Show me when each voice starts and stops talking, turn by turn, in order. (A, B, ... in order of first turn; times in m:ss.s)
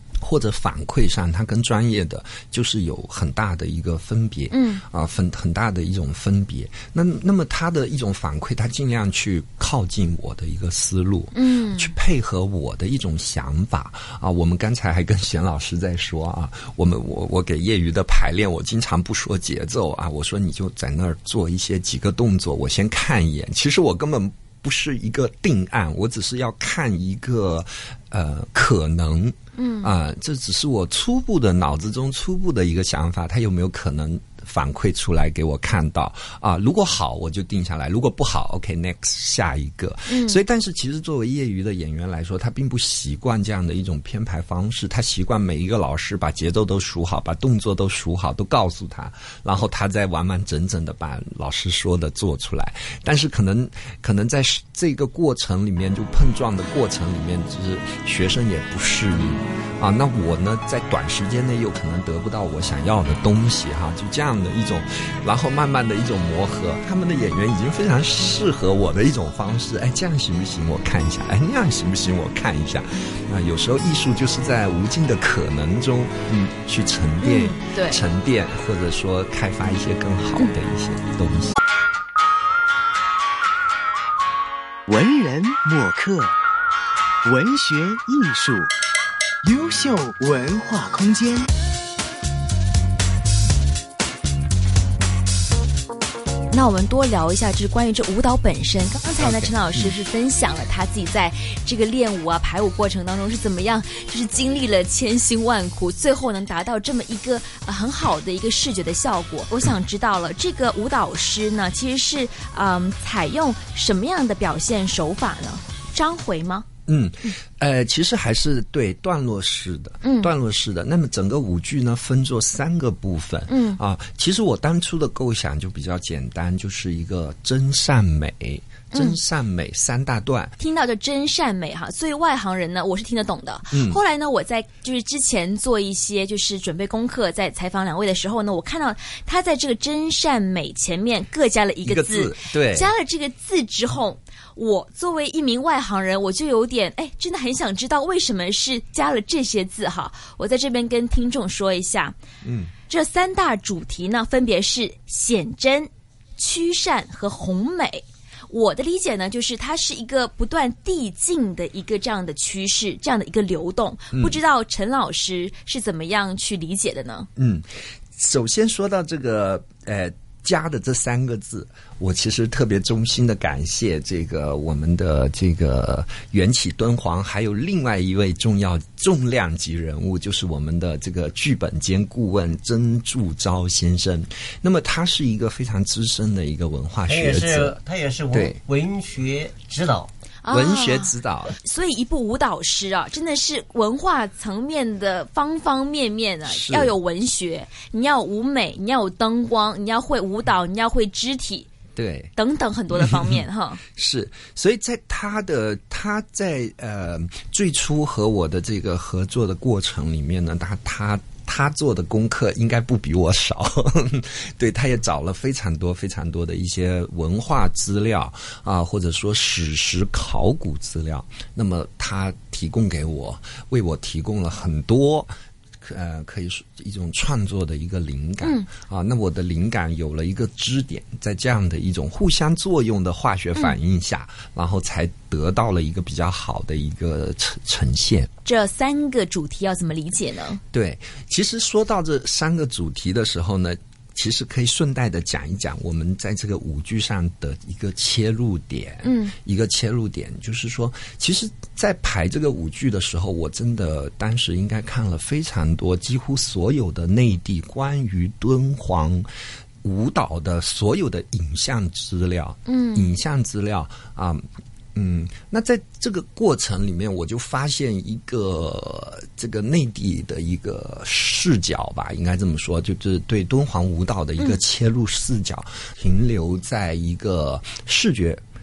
0:00.2-1:21.6 A
0:04.5-0:04.8 B
0:11.3-0:11.9 B
0:29.6-0:29.9 B
0:40.1-0:40.4 B
1:17.2-1:18.0 B
1:24.9-1:26.4 C
1:27.2-1:28.7 C
1:29.4-1:31.5 C
1:36.5-1:56.7 B
1:39.2-1:40.0 A
1:56.9-2:10.5 A
2:00.0-2:00.3 B
2:03.5-2:03.8 B
2:08.9-2:09.2 B
2:10.6-2:32.2 B
2:13.7-2:14.0 A
2:21.8-2:22.9 A
2:32.4-2:32.7 A
2:32.9-2:47.3 B
2:44.1-2:44.4 A
2:47.4-3:07.8 A
3:07.1-3:10.1 D
3:08.3-3:08.6 A
3:10.4-3:21.7 B
3:10.5-3:11.6 A
3:16.4-3:17.0 A
3:22.0-3:22.3 A
3:22.4-3:23.8 B
3:22.9-3:23.4 A
3:23.9-3:45.3 A
3:45.8-3:58.3 A
3:58.4-4:00.6 B
4:00.7-4:19.3 A
4:09.0-4:09.3 B
4:19.8-4:38.4 A
4:22.7-4:23.1 B